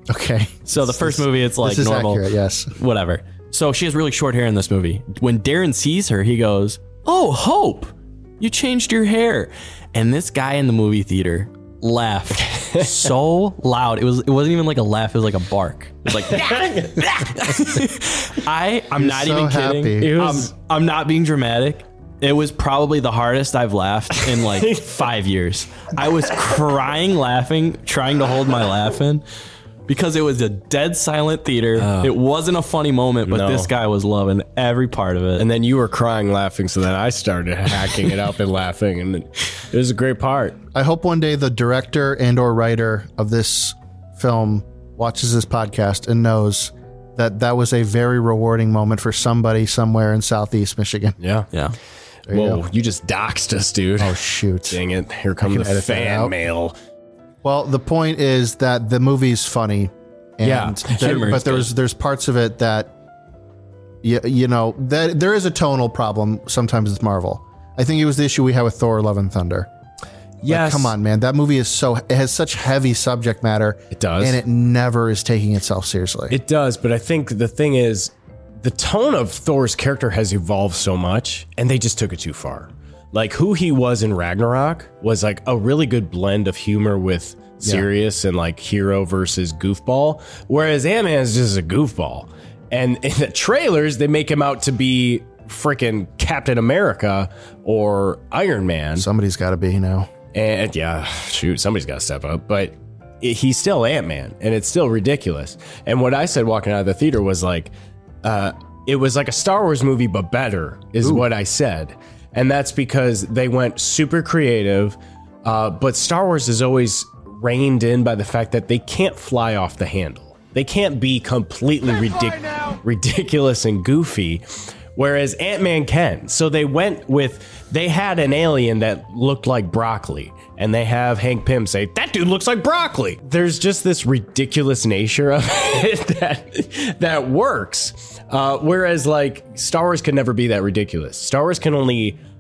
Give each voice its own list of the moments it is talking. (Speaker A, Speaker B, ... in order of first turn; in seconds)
Speaker A: 0.1-2.7, 19.0-20.2, 40.7-51.2, 52.3-52.6, 54.0-54.8, 55.4-56.3, 57.4-62.9, 64.0-69.7, 70.4-76.4, 99.0-100.1
Speaker B: 0.7-29.2, 29.9-35.5, 61.0-61.7
Speaker C: 12.4-13.1, 16.1-17.6, 20.0-20.5, 24.5-25.1, 31.8-32.1, 33.3-33.7, 35.4-40.6, 51.2-51.5, 52.3-56.8, 60.4-61.4, 70.4-71.0, 73.9-74.4, 76.3-99.1, 100.3-107.7, 108.2-142.2